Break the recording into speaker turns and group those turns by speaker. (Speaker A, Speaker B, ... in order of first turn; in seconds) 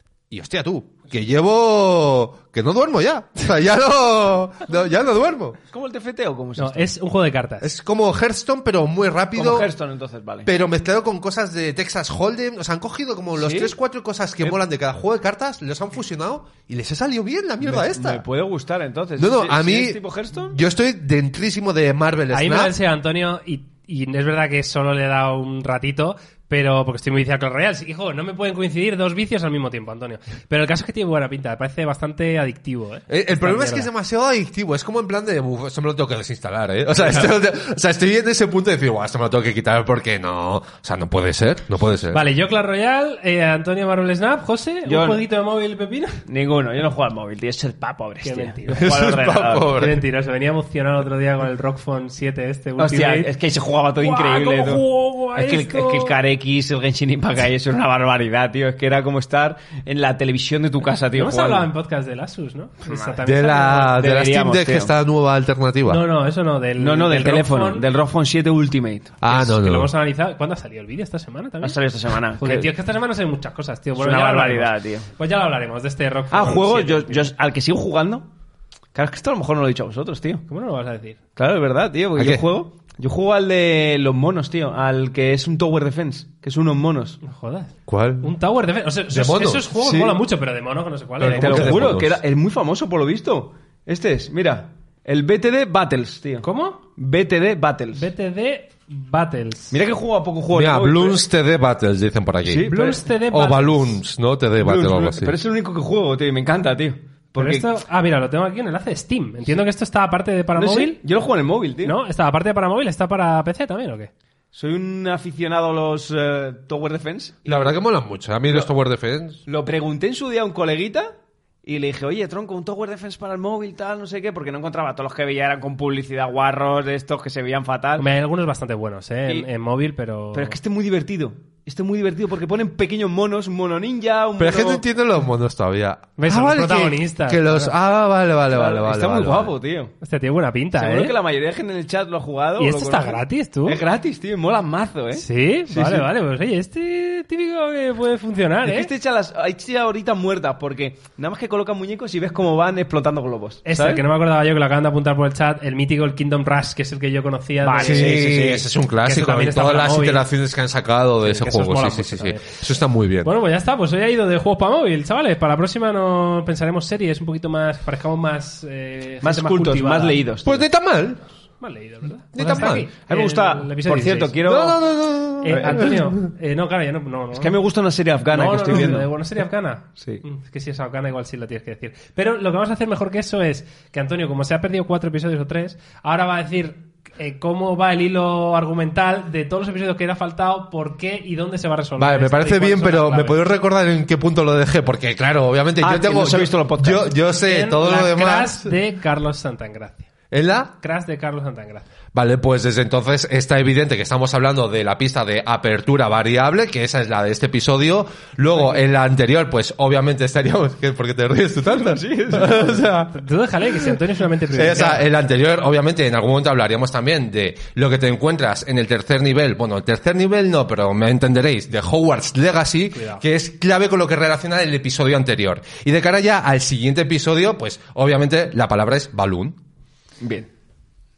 Speaker A: 0.3-5.6, 7.6-9.7, 10.5-18.2, 19.2-22.7, 33.1-42.2, 48.7-50.0, 63.2-66.0, 69.2-69.9, 82.2-82.4, 87.9-88.3, 89.1-89.7, 91.2-92.2, 100.5-105.3, 117.5-119.4, 134.4-139.5, 157.8-163.3, 170.4-171.3, 172.3-172.9, 174.4-176.2, 192.0-198.8, 200.3-200.7, 202.1-213.1, 214.5-229.6
Speaker B: 5.7-6.9, 9.4-10.5, 13.4-13.7, 17.6-20.6, 44.9-45.2, 46.3-49.7, 52.8-54.9, 55.4-61.7, 62.9-63.2, 64.0-64.9, 66.8-69.2, 71.6-72.7, 74.0-75.1, 76.3-78.3, 78.9-80.5, 81.4-87.2, 89.8-90.2, 91.2-98.1, 99.7-101.2, 102.5-103.0, 104.6-107.7, 110.6-112.0, 114.5-117.7, 119.5-121.1, 121.6-128.1, 130.3-134.8, 138.5-139.9, 140.8-146.1, 148.6-154.0, 157.6-158.7, 169.2-170.6, 172.4-174.8, 175.5-175.9, 177.4-179.1, 195.8-197.1, 211.8-212.8, 230.2-230.5
Speaker C: 6.6-7.7, 22.3-33.9, 42.1-46.2, 48.2-49.0, 49.7-53.3, 54.0-56.1, 61.1-64.0, 65.9-67.8, 69.3-71.8, 72.4-77.3, 80.5-81.2, 87.2-91.8, 96.4-96.8, 97.9-99.8, 102.7-104.0, 107.4-111.0, 111.8-114.1, 128.0-130.6, 136.2-137.7, 140.0-141.1, 142.6-143.8, 145.2-148.9, 153.7-158.2, 159.1-160.2, 161.2-162.6, 163.2-170.2, 171.6-174.4, 175.4-177.6, 178.3-193.4, 197.4-200.1, 200.8-201.9, 213.1-215.0, 222.9-223.2